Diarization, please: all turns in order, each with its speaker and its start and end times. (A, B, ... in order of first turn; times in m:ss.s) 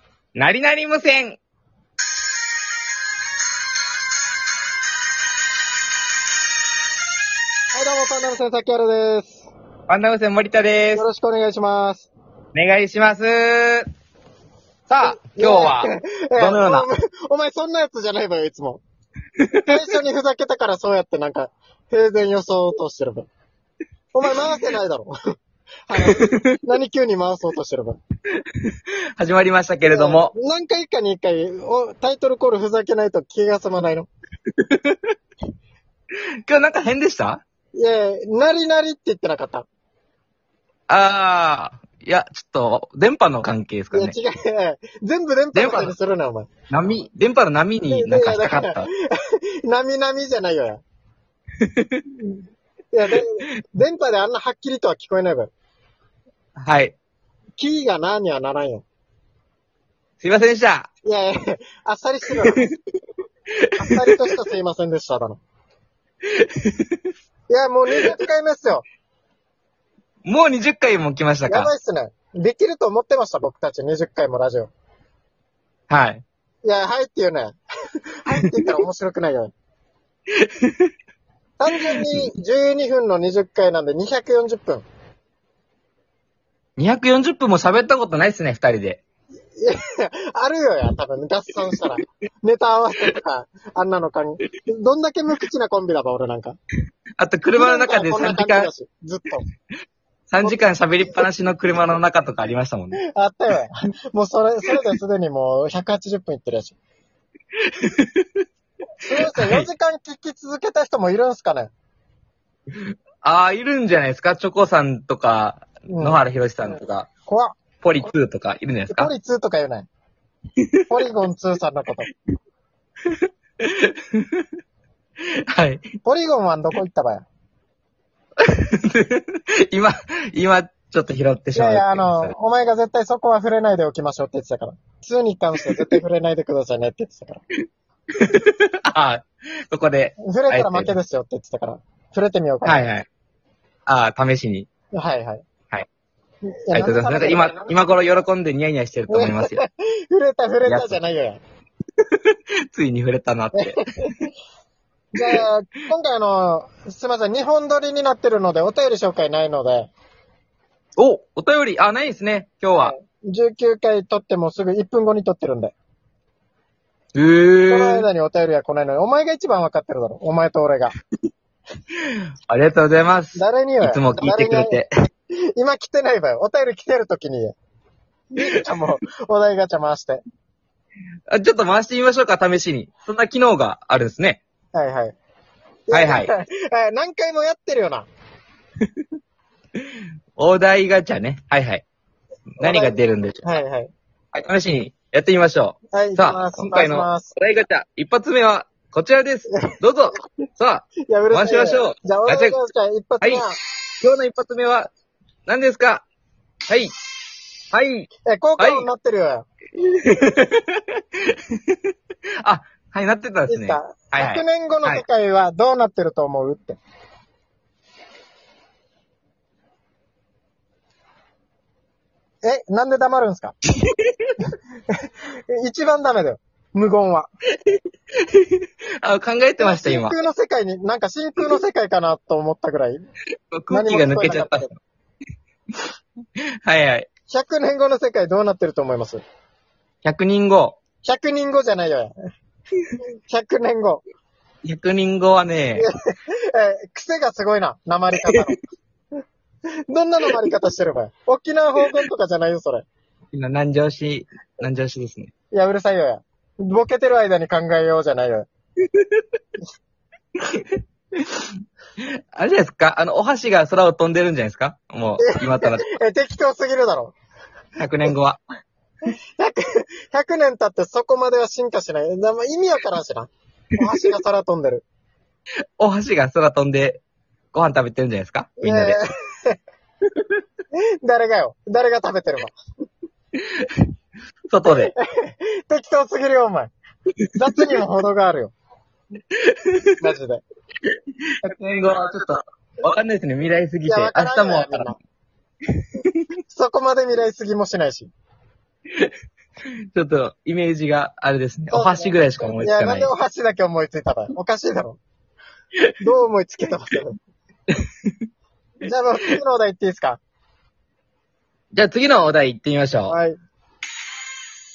0:00.4-0:01.4 A
0:07.7-0:09.5 B
0:09.9-0:11.0 A
0:11.0-0:12.1 B
0:12.5-0:13.9 A
0:14.9-0:16.9 A
0:15.0-0:18.8 B
0:19.4-0:19.7 A
0:19.7-0:23.3 B
0:24.1-0:25.2 B
0:25.9-0:28.0 B
0:26.0-0:26.5 A
0:28.4-0:30.3 A
0:29.9-0:34.1 B
0:34.5-0:35.0 A
0:36.5-0:37.4 A
0:37.8-0:39.7 B
0:40.9-0:44.2 A
0:43.9-0:46.5 B
0:45.5-0:45.9 A
0:46.7-0:48.9 A
0:47.9-0:50.8 B
0:51.6-0:52.0 A
0:52.9-0:55.5 B
0:56.6-0:57.0 A
0:57.6-0:58.8 B
1:00.2-1:00.9 A
1:01.0-1:02.6 B
1:03.7-1:04.3 A
1:03.8-1:05.4 B
1:06.3-1:07.0 A
1:07.5-1:08.8 B
1:10.2-1:11.7 A
1:11.5-1:14.7 B
1:15.9-1:16.2 A
1:16.6-1:17.6 B
1:18.2-1:19.5 B
1:18.4-1:18.7 A
1:20.3-1:20.9 A
1:21.6-1:24.9 B
1:26.8-1:29.0 A
1:29.6-1:36.6 B
1:37.2-1:38.7 A
1:37.6-1:39.4 B
1:40.3-1:43.0 A
1:43.1-1:46.8 B
1:47.6-1:48.4 A
1:49.0-1:51.7 B
1:49.2-1:49.7 A
1:52.7-1:57.1 A
1:55.9-1:56.2 B
1:57.3-1:57.6 B
1:57.8-1:59.1 A
1:58.9-1:59.9 B
2:00.6-2:00.9 A
2:00.9-2:02.1 B
2:03.0-2:04.5 A
2:05.5-2:05.8 A
2:06.0-2:07.3 B
2:08.4-2:12.3 A
2:11.5-2:17.4 B
2:18.1-2:20.9 A
2:20.2-2:22.9 B
2:22.6-2:23.0 A
2:23.9-2:24.7 A
2:24.9-2:25.4 B
2:26.5-2:27.8 B
2:26.7-2:29.6 A
2:29.1-2:31.4 B
2:30.7-2:31.0 A
2:32.0-2:34.2 A
2:33.5-2:34.3 B
2:35.1-2:39.9 B
2:41.0-2:42.9 A
2:42.7-2:45.7 B
2:47.2-2:48.1 A
2:47.7-2:50.9 B
2:51.9-2:54.9 A
2:53.3-2:54.8 B
2:55.6-2:57.6 B
2:58.4-3:00.2 B
3:01.3-3:04.4 A
3:04.7-3:05.2 B
3:05.9-3:08.1 B
3:05.9-3:06.3 A
3:09.8-3:11.8 A
3:12.6-3:13.6 A
3:12.6-3:13.9 B
3:14.3-3:22.6 A
3:15.9-3:17.3 B
3:21.1-3:23.6 B
3:24.0-3:24.9 A
3:25.5-3:26.0 A
3:26.7-3:26.9 A
3:27.7-3:28.1 A
3:28.2-3:29.5 B
3:28.6-3:28.9 A
3:29.8-3:31.8 A
3:32.4-3:35.0 A
3:33.5-3:36.8 B
3:42.4-3:43.5 B
3:43.8-3:44.3 A
3:45.6-3:47.3 B
3:47.7-3:50.1 A
3:49.6-3:53.0 B
3:53.5-3:54.7 A
3:53.7-3:54.7 B
3:56.6-3:57.1 A
3:57.3-3:59.2 B
4:00.0-4:00.8 A
4:01.0-4:02.1 B
4:03.3-4:04.0 B
4:04.6-4:05.9 A
4:05.8-4:08.6 B
4:09.9-4:12.8 B
4:13.3-4:15.3 A
4:15.5-4:18.5 B
4:18.9-4:19.2 A
4:20.4-4:25.9 A
4:25.2-4:27.1 B
4:27.8-4:28.4 A
4:29.4-4:34.8 B
4:35.8-4:39.0 A
4:38.6-4:39.6 B
4:41.0-4:42.5 B
4:43.4-4:43.8 A
4:44.5-4:44.9 A
4:44.6-4:46.7 B
4:47.4-4:48.5 B
4:49.4-4:50.0 A
4:50.0-4:50.4 B
4:51.3-4:54.9 A
4:53.8-4:55.0 B
4:55.8-4:56.2 A
4:56.5-4:58.1 B
4:59.9-5:03.1 A
5:01.7-5:05.0 B
5:06.0-5:07.2 B
5:07.7-5:08.1 A
5:08.8-5:10.2 B
5:11.7-5:13.2 A
5:13.1-5:13.4 B